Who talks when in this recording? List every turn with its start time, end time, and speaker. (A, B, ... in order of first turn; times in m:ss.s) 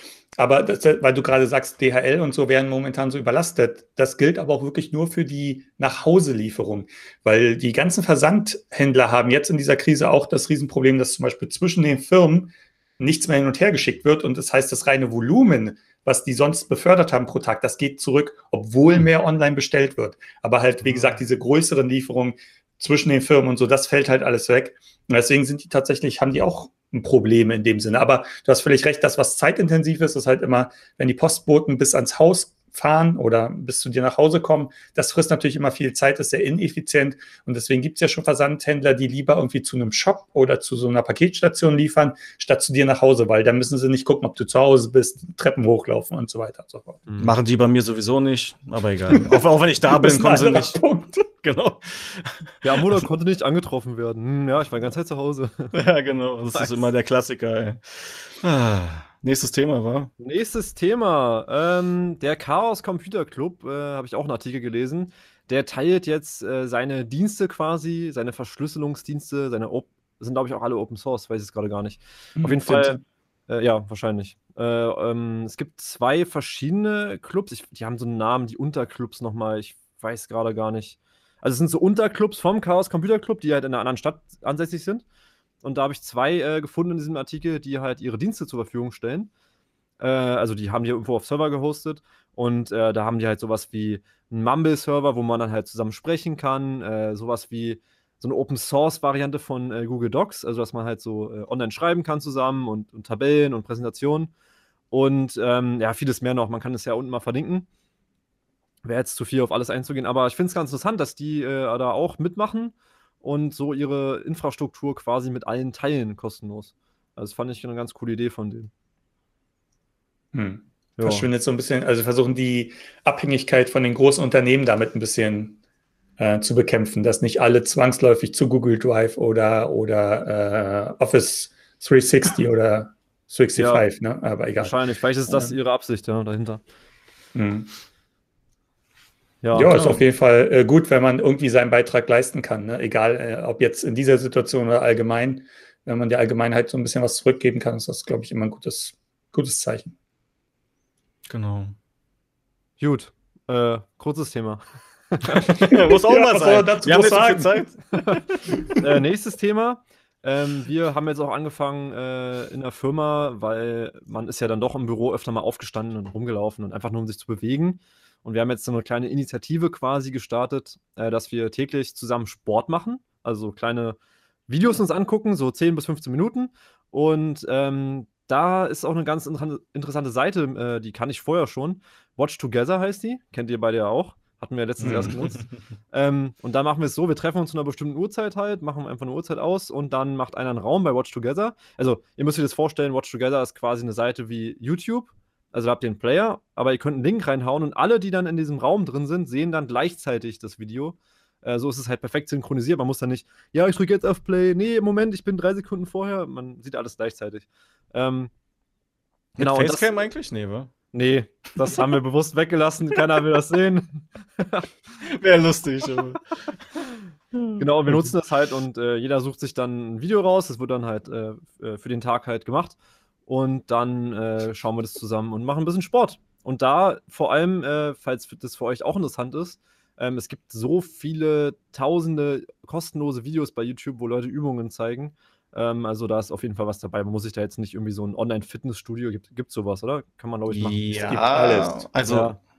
0:00.4-0:47.0 A
0:20.8-0:21.1 B
0:47.1-0:47.3 B
0:47.2-0:50.8 C
0:49.1-0:51.2 A
0:51.4-0:52.5 C
0:52.6-0:55.8 B
0:55.7-1:00.1 C
0:56.5-0:56.8 B
1:00.2-1:25.0 B
1:12.4-1:13.0 A
1:25.6-1:29.3 B
1:30.0-1:44.3 B
1:44.9-1:47.7 B
1:48.8-1:58.7 B
2:00.3-2:05.6 A
2:01.0-2:01.3 B
2:06.2-2:14.7 A
2:13.6-2:13.8 B
2:14.6-2:16.6 B
2:15.3-2:15.6 A
2:17.4-2:17.7 A
2:19.4-2:20.0 B
2:19.5-2:29.9 A
2:31.3-2:31.8 C
2:32.8-2:35.5 B
2:35.5-2:37.8 C
2:35.6-2:37.7 A
2:38.0-2:38.2 B
2:38.8-2:54.0 B
2:54.5-3:28.3 B
3:04.9-3:05.3 C
3:29.4-3:30.7 C
3:29.4-3:29.9 B
3:30.9-3:34.7 B
3:35.0-3:36.2 C
3:37.3-3:38.1 C
3:37.6-3:42.8 B
3:43.3-4:00.8 B
4:00.5-4:02.3 C
4:01.0-4:01.9 A
4:02.0-4:02.4 B